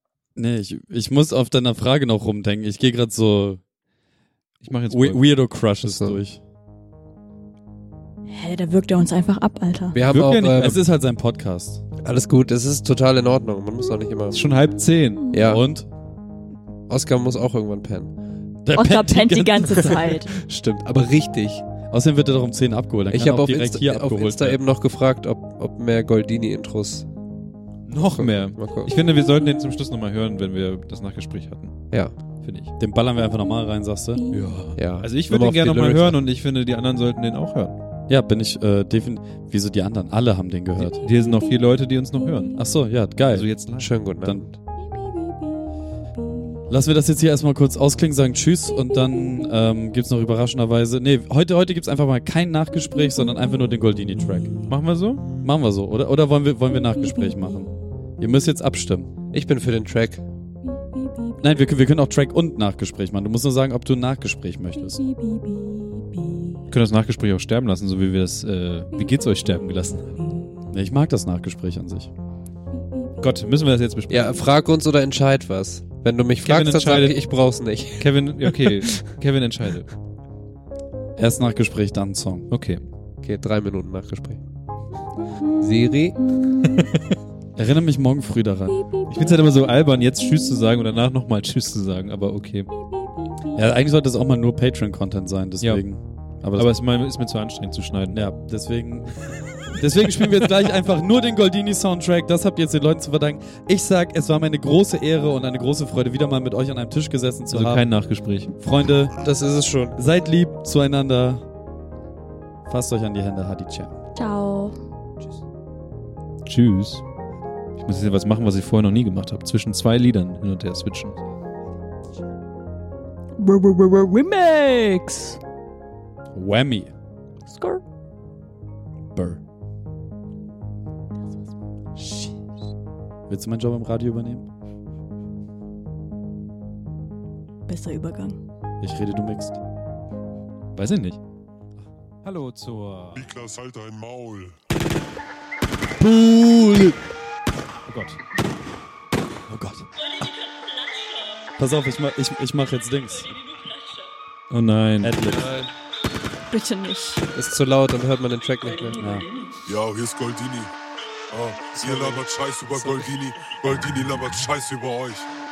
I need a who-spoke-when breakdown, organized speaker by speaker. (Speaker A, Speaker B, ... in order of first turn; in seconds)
Speaker A: 0.3-3.6, 4.9-6.4, 10.2-11.8, 15.4-15.9, 18.6-19.8, 21.9-24.6, 32.8-34.2, 38.1-41.0, 42.6-43.5, 44.2-44.5, 46.7-54.6, 55.4-59.1, 61.4-65.0, 70.7-72.1, 81.2-82.5, 87.6-88.8, 93.5-96.7, 98.1-99.2, 99.7-107.8, 108.6-109.2, 109.9-111.4, 112.7-113.9, 126.3-126.9, 129.1-129.4, 133.3-134.4, 138.8-139.6, 146.0-147.0, 149.5-149.9, 151.6-153.3, 155.0-155.5, 159.0-159.3
Speaker B: 4.6-5.3, 10.1-10.8, 14.3-15.3, 27.9-32.7, 34.3-37.8, 40.8-42.6, 43.2-43.9, 54.6-55.3, 66.7-70.3, 73.2-74.4, 76.4-77.2, 78.0-79.9, 82.5-82.8, 86.6-87.2, 89.1-92.7, 96.5-98.2, 99.9-100.5, 107.5-108.5, 116.4-117.0, 117.8-121.2, 140.7-141.2, 142.2-143.3, 147.9-148.2, 154.5-155.2
Speaker C: 5.8-6.2, 9.9-10.8, 12.0-14.4, 15.3-15.6, 16.9-18.1, 19.9-21.6, 23.1-27.1, 28.0-28.9, 34.8-36.2, 43.8-44.6, 59.3-60.2, 74.1-79.1, 83.2-84.4, 85.6-86.2, 109.2-110.0, 155.3-155.7, 157.3-159.0, 161.7-163.1
Speaker D: 8.3-10.0, 18.8-20.4, 114.2-114.7, 123.4-125.4, 127.5-127.8, 137.7-138.4, 156.5-157.3
Speaker E: 143.1-144.6, 159.7-160.7, 161.3-165.3